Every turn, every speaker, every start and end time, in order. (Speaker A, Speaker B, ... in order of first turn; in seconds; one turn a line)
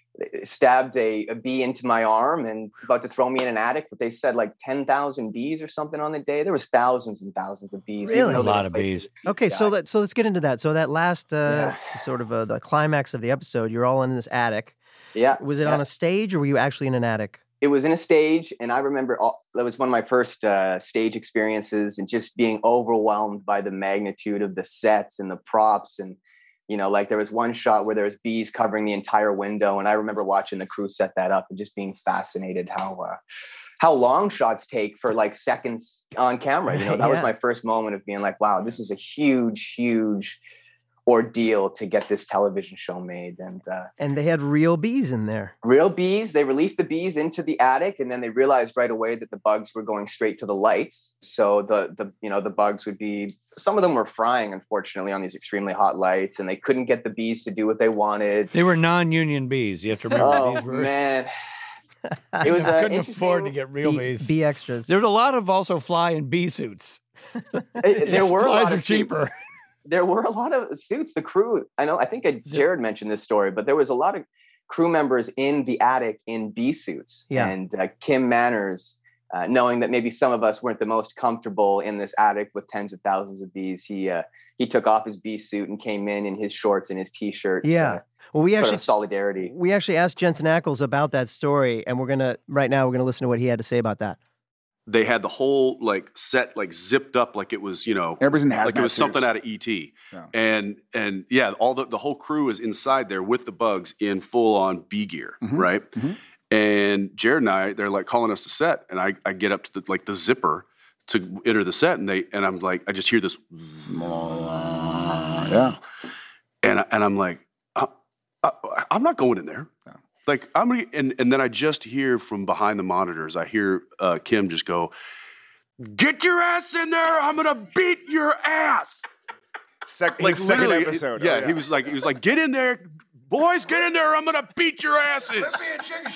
Speaker A: 0.2-9.7
Speaker B: 8.0-8.5
Speaker C: 8.2-9.1
Speaker B: 9.2-14.8
Speaker A: 11.5-11.8
Speaker A: 15.1-15.8
Speaker B: 15.4-17.4
Speaker A: 17.6-33.2
Speaker A: 33.8-40.4
Speaker B: 36.7-37.3
Speaker A: 41.1-43.9
Speaker B: 44.0-45.5
Speaker A: 45.6-58.5
Speaker C: 58.5-60.9
Speaker A: 60.1-61.3
Speaker B: 62.3-62.7
Speaker A: 62.4-63.5
Speaker C: 62.5-64.3
Speaker B: 63.8-64.9
Speaker C: 64.9-67.0
Speaker A: 67.8-69.2
Speaker C: 68.0-69.3
Speaker A: 69.9-88.0
Speaker B: 87.6-88.9
Speaker A: 88.6-89.5
Speaker B: 89.4-94.2
Speaker D: 94.9-105.9
Speaker E: 98.2-99.3
Speaker E: 105.4-106.1
Speaker D: 106.5-114.0
Speaker E: 113.9-115.8
Speaker D: 116.6-117.9
Speaker D: 118.4-119.7
Speaker D: 120.2-124.9
Speaker D: 125.8-129.0
Speaker E: 129.8-131.6
Speaker D: 130.2-135.8